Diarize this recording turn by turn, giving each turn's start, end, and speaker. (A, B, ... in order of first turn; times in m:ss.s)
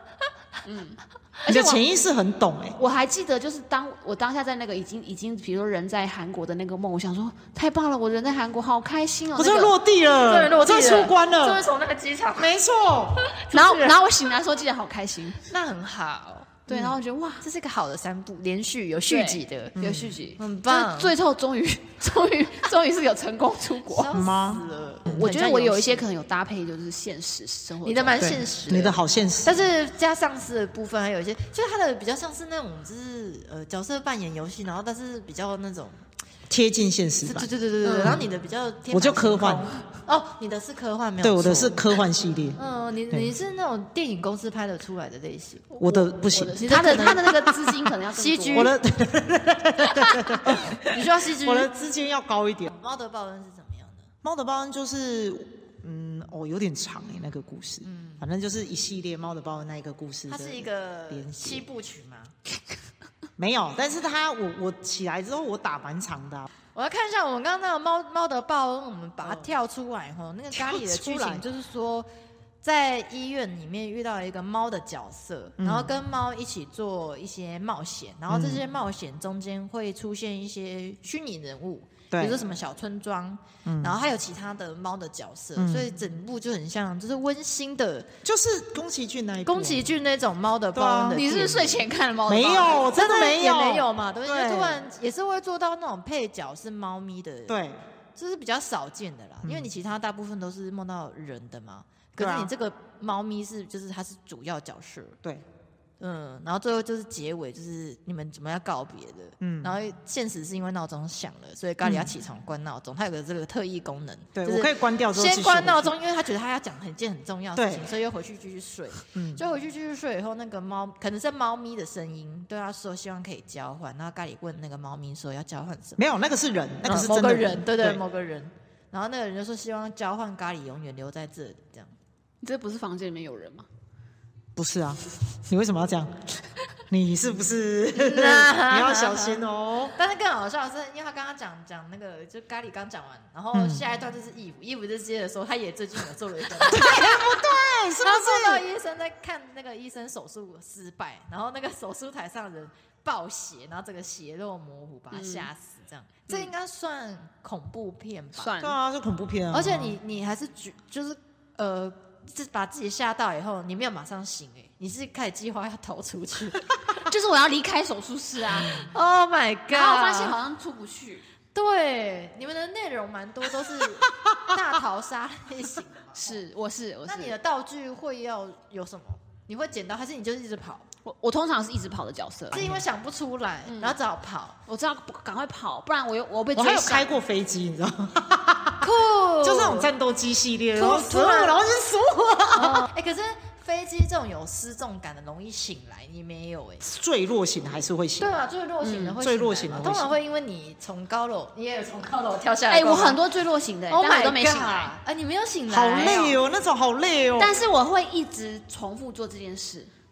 0:00.6-0:01.8 A
0:01.5-0:02.8 B
0:02.8-0:09.8 A
0:09.4-0:11.6 B
0:10.2-0:12.6 C
0:12.4-0:13.2 B
0:13.2-0:14.0 C
0:13.5-0:15.4 A
0:15.5-0:19.8 C
0:16.7-0:17.4 A
0:19.1-0:24.1 A
0:19.8-0:20.1 B
0:20.4-0:21.1 C
0:23.8-0:26.1 C
0:24.1-0:25.2 B
0:25.1-0:28.4 A
0:27.8-0:36.0 C
0:28.2-0:29.6 B
0:36.5-0:38.2 B
0:37.2-0:41.9 C
0:37.8-0:38.2 A
0:38.9-0:39.7 B
0:41.2-0:42.6 B
0:42.6-0:45.7 C
0:45.7-0:48.7 A
0:45.8-0:47.2 B
0:46.6-0:47.5 C
0:48.1-0:48.7 C
0:48.5-0:52.7 B
0:50.5-0:51.7 C
0:52.7-0:54.1 C
0:54.2-1:01.6 B
0:57.8-0:58.2 C
1:00.3-1:02.3 C
1:03.4-1:06.5 B
1:06.7-1:12.1 C
1:10.5-1:11.4 B
1:12.6-1:28.1 C
1:15.6-1:15.9 B
1:18.3-1:18.6 B
1:22.1-1:22.4 B
1:23.6-1:24.0 B
1:25.6-1:25.9 B
1:28.2-1:29.8 B
1:29.4-1:31.8 C
1:30.7-1:31.2 B
1:31.1-1:32.9 A
1:32.3-1:34.8 B
1:32.9-1:37.6 C
1:37.5-1:37.8 B
1:38.2-1:45.2 C
1:39.4-1:39.7 B
1:42.2-1:42.5 B
1:46.0-2:06.0 C
1:49.4-1:49.8 B
1:51.8-1:52.1 B
1:54.3-1:55.9 B
1:57.6-1:57.9 B
1:59.1-1:59.4 B
2:06.0-2:08.0 B
2:06.8-2:11.9 C
2:12.4-2:13.7 A
2:14.6-2:16.1 B
2:16.9-2:19.9 B
2:17.9-2:38.5 C
2:23.5-2:23.8 B
2:26.7-2:28.6 B
2:35.1-2:35.5 A
2:38.3-2:38.8 A
2:38.6-2:40.0 B
2:39.5-2:46.7 C
2:47.0-2:48.9 A
2:48.6-2:50.4 C
2:49.7-2:51.2 A
2:51.5-2:56.4 C
2:56.2-2:57.3 A
2:57.1-3:00.9 C
3:01.0-3:02.6 A
3:02.5-3:04.6 C
3:02.5-3:02.8 B
3:03.7-3:04.0 A
3:04.7-3:07.1 A
3:06.5-3:08.9 B
3:08.8-3:09.9 C
3:09.4-3:12.8 B
3:10.8-3:11.6 C
3:12.5-3:16.8 C
3:16.8-3:18.3 B
3:18.2-3:23.2 C
3:18.8-3:19.2 A
3:19.2-3:20.1 B
3:22.7-3:24.9 A
3:23.9-3:26.4 C
3:25.7-3:27.6 B
3:27.4-3:29.9 A